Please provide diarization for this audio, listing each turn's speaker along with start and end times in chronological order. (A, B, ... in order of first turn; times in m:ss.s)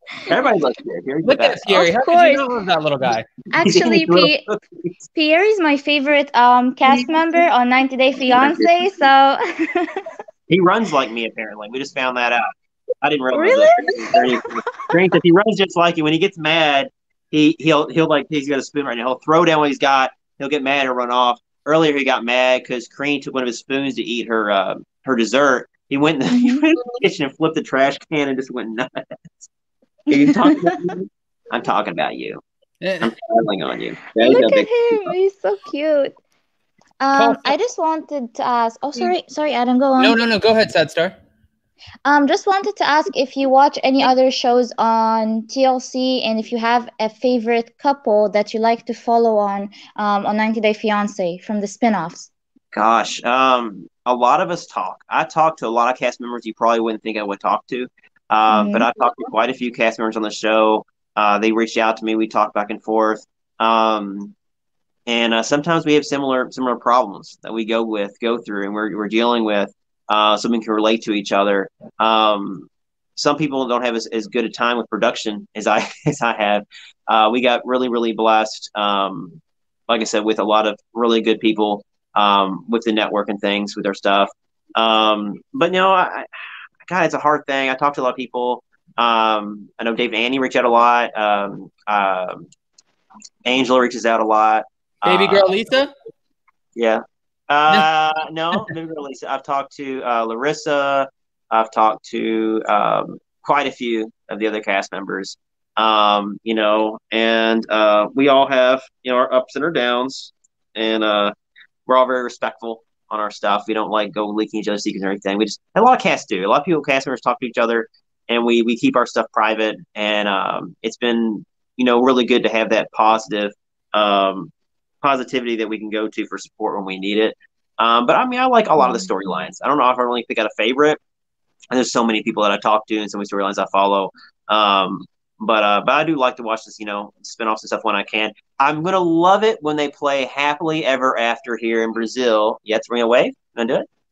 0:00.2-0:01.7 A
0:01.2-0:03.3 B
0:01.7-0:02.5 C
0:03.5-0:04.4 C
0:03.6-0:04.6 A
0:05.1-0:09.9 C
0:08.3-0:08.7 A
0:10.5-0:12.5 A
0:13.0-0:29.5 A
0:13.3-0:15.0 C
0:26.3-0:26.6 C
0:30.1-0:32.4 A
0:30.2-0:30.7 C
0:32.8-0:33.1 B
0:33.0-0:35.1 A
0:34.2-0:36.1 C
0:37.0-0:40.2 C
0:37.1-0:37.5 B
0:40.0-0:41.2 B
0:42.0-0:52.3 C
0:52.7-1:04.3 A
0:58.5-0:58.9 C
1:05.1-1:32.5 A
1:33.4-1:35.5 A
1:35.0-1:35.9 B
1:36.8-1:51.3 A
1:51.9-2:04.5 A
2:05.0-2:11.0 A
2:11.7-2:23.9 A